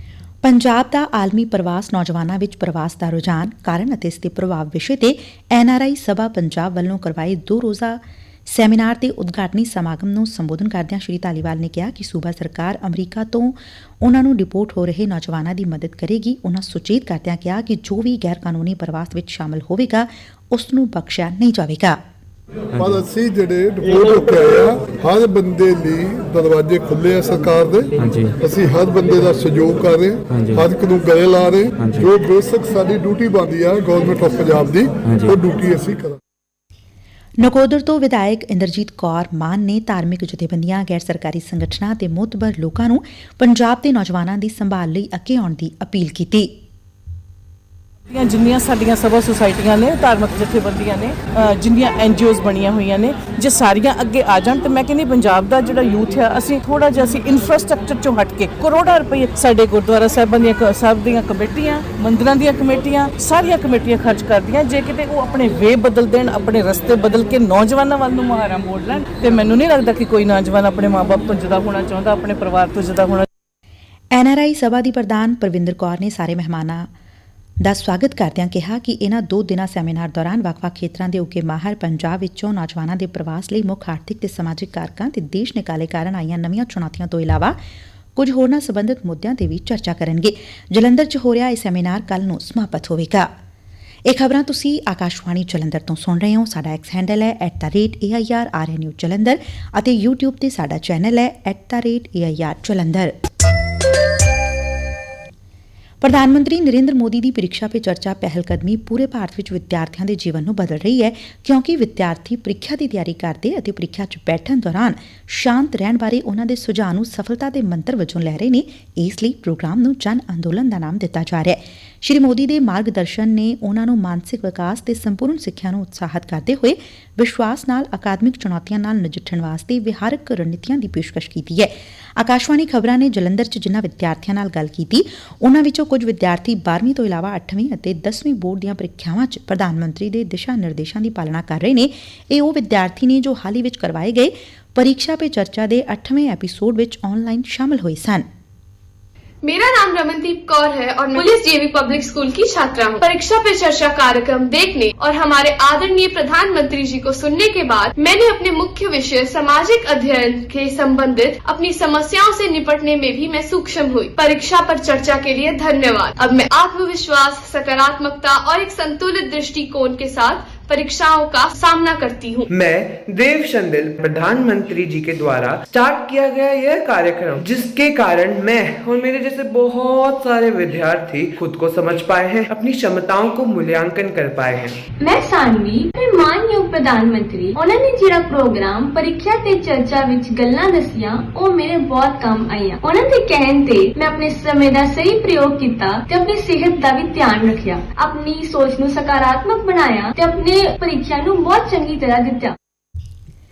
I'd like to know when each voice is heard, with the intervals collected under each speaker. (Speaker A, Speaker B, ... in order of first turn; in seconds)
Speaker A: 0.4-21.9, 37.4-46.4, 74.1-76.9, 77.6-87.5, 88.2-93.2, 94.0-103.1, 106.0-148.2
Speaker B: 22.8-36.2
Speaker C: 48.1-73.2
Speaker D: 149.4-172.5
Speaker E: 172.5-184.8
Speaker F: 185.0-202.6